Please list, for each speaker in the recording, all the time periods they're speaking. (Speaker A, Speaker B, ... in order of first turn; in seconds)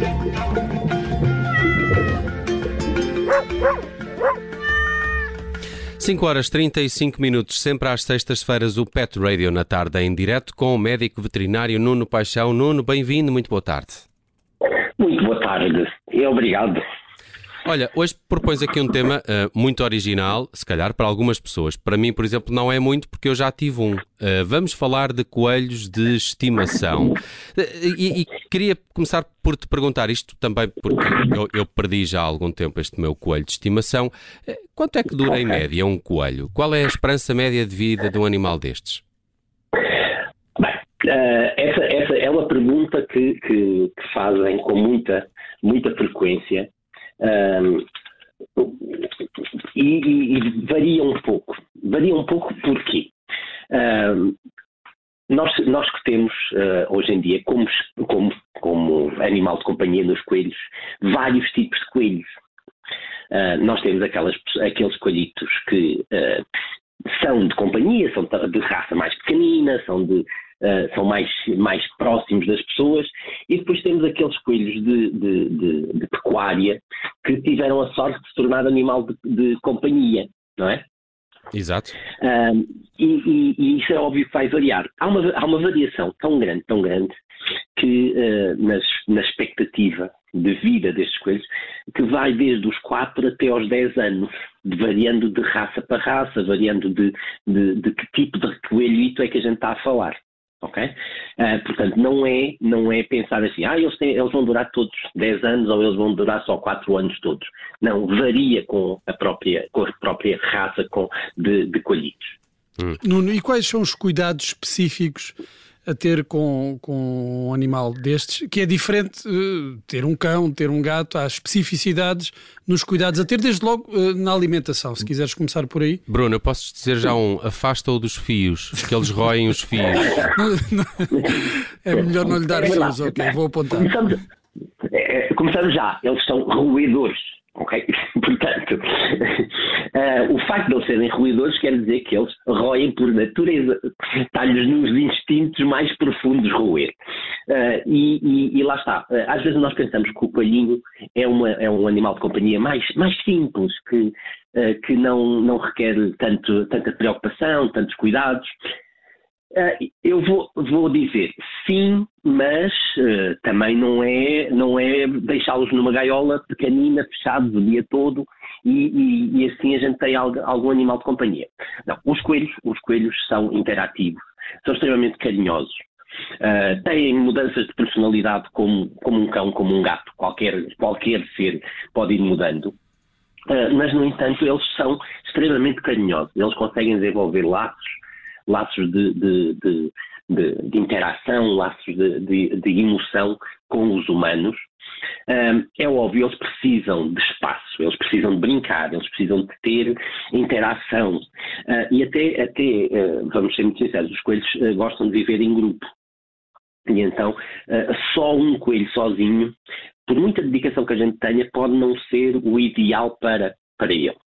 Speaker A: 6.0-14.0, 17.6-39.0, 81.5-82.0, 126.1-130.3
Speaker B: 15.0-16.8, 40.6-46.7, 47.2-47.9, 48.6-49.1, 49.7-53.1, 53.7-54.4, 55.3-62.3, 63.3-66.4, 67.1-80.8, 82.2-87.1, 87.8-112.4, 131.1-131.4, 132.2-134.2, 134.8-146.9, 147.5-158.5, 159.5-175.8, 176.4-182.7, 183.5-187.9, 188.5-194.7, 195.3-205.8, 206.9-209.6, 210.1-214.2
Speaker C: 113.0-115.3, 115.9-126.0, 130.3-131.3, 131.8-133.9